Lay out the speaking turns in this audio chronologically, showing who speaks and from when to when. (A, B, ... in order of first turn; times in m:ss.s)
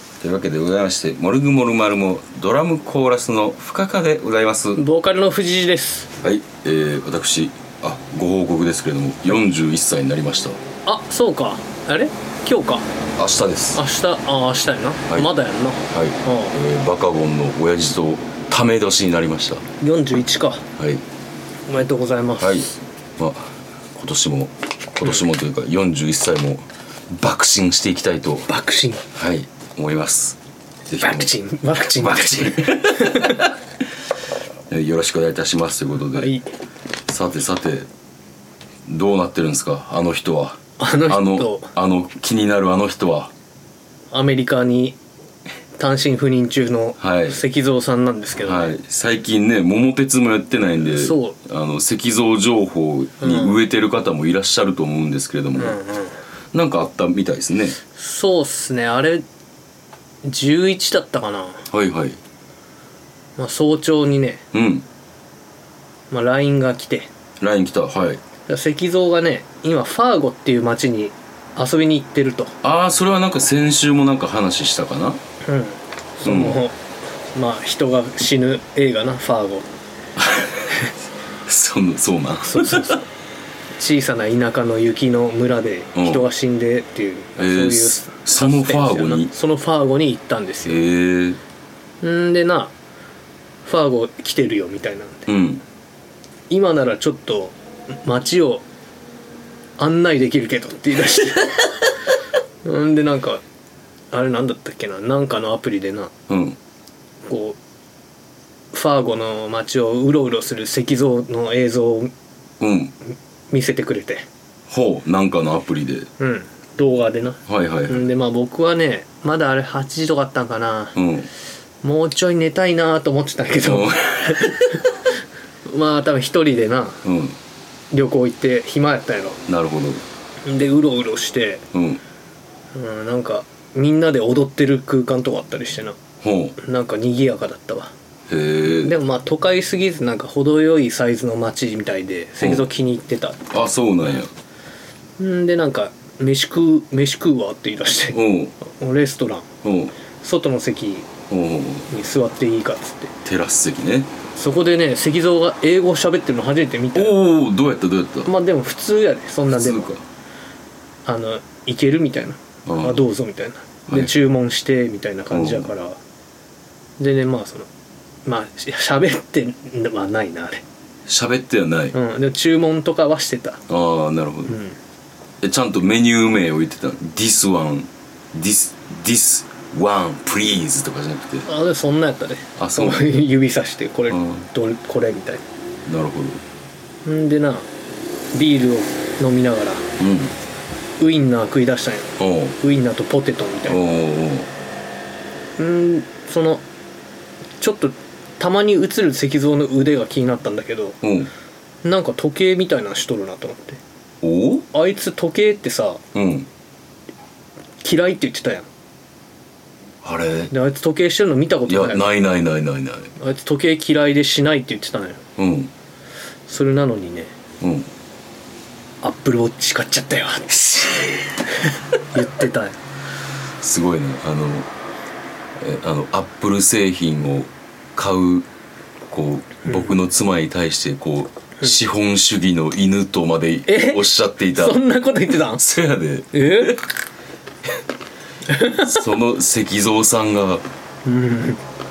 0:00.2-0:04.8 A
0:04.8-0:06.2 B
0:06.2-0:10.6 A
0:10.8-0:12.8 B
0:13.2-0:13.8 A
0:13.7-0:16.6 B
0:15.9-0:19.7 A
0:19.8-0:20.7 B
0:20.8-0:21.0 A
0:21.7-0:22.6 B
0:22.4-0:28.5 A
0:28.5-0:29.0 B
0:29.1-0:31.3 A
0:31.0-0:33.5 B
0:32.0-0:33.5 A
0:34.7-0:36.3 A
0:36.1-0:36.5 B
0:37.1-0:37.9 A
0:38.8-0:43.3 A
0:40.8-0:41.7 B
0:44.1-0:45.0 B
0:45.8-0:48.8 B
0:47.0-0:47.4 A
0:48.4-0:55.8 A
0:50.9-0:51.4 B
0:53.2-0:53.6 B
0:55.6-0:56.2 B
0:56.5-0:57.8 A
0:57.9-0:59.2 B
1:00.2-1:01.7 B
1:01.7-1:02.2 A
1:03.4-1:04.4 B
1:04.5-1:04.9 A
1:06.1-1:07.1 B
1:07.4-1:08.2 A
1:08.5-1:12.6 B
1:12.6-1:15.2 A
1:15.4-1:16.8 B
1:16.2-1:16.6 A
1:17.3-1:19.7 B
1:20.2-1:20.9 A
1:21.4-1:23.0 A
1:22.4-1:23.0 B
1:23.8-1:30.8 B
1:25.9-1:26.2 A
1:27.4-1:29.3 A
1:30.6-1:31.4 A
1:32.0-1:32.7 B
1:33.6-1:35.3 B
1:35.3-1:35.6 A
1:36.5-1:38.6 B
1:39.8-1:41.9 B
1:42.6-1:43.4 B
1:44.1-1:46.1 B
1:46.3-1:46.6 A
1:47.3-1:47.6 B
1:48.7-1:52.1 B
1:52.6-1:52.9 A
1:53.5-1:54.2 B
1:54.7-1:56.1 A
1:56.2-2:01.0 B
1:57.5-1:58.1 A
2:00.9-2:01.3 A
2:01.8-2:04.8 B
2:03.6-2:04.9 A
2:05.7-2:07.0 B
2:07.0-2:07.4 A
2:07.9-2:09.4 B
2:09.5-2:10.0 A
2:10.4-2:11.6 B
2:11.7-2:12.0 A
2:12.7-2:16.0 B
2:16.2-2:16.6 A
2:16.6-2:17.9 B
2:18.3-2:18.9 A
2:18.7-2:23.4 B
2:22.4-2:22.7 A
2:23.5-2:24.3 A
2:25.2-2:29.5 B
2:28.1-2:28.5 A
2:29.6-2:29.9 A
2:30.2-2:31.1 B
2:31.3-2:31.9 A
2:31.9-2:33.1 B
2:33.2-2:34.1 A
2:34.4-2:37.2 B
2:36.9-2:38.3 A
2:38.2-2:39.9 B
2:39.5-2:40.0 A
2:41.1-2:46.0 B
2:42.7-2:43.0 A
2:43.9-2:44.1 A
2:45.3-2:45.7 A
2:47.0-2:47.7 B
2:48.2-2:50.6 B
2:51.1-2:52.0 A
2:51.9-2:53.6 B
2:53.7-2:54.6 A
2:54.5-2:54.8 B
2:55.4-3:01.5 A
3:01.4-3:05.4 B
3:02.6-3:03.2 A
3:04.1-3:04.4 A
3:05.8-3:06.4 A
3:07.0-3:07.7 B
3:08.3-3:09.9 B
3:10.0-3:10.3 A
3:11.0-3:13.8 B
3:12.2-3:12.6 A
3:13.7-3:14.5 A
3:15.6-3:16.6 B
3:17.6-3:21.0 B
3:21.0-3:21.3 A
3:21.8-3:23.8 B
3:24.2-3:24.7 A
3:24.7-3:26.0 B
3:26.1-3:26.5 A
3:27.8-3:28.7 B
3:30.0-3:30.5 A
3:30.5-3:32.1 B
3:31.7-3:33.1 A
3:33.2-3:35.2 B
3:35.4-3:35.7 A
3:36.5-3:37.3 B
3:37.6-3:37.9 A
3:39.0-3:42.8 B
3:43.6-3:44.7 A
3:45.6-3:48.5 A
3:49.1-3:56.8 A
3:49.7-3:49.9 B
3:53.7-3:55.6 B
3:56.3-3:56.8 B
3:58.5-3:59.0 B
3:58.6-4:00.6 A
4:01.0-4:01.6 B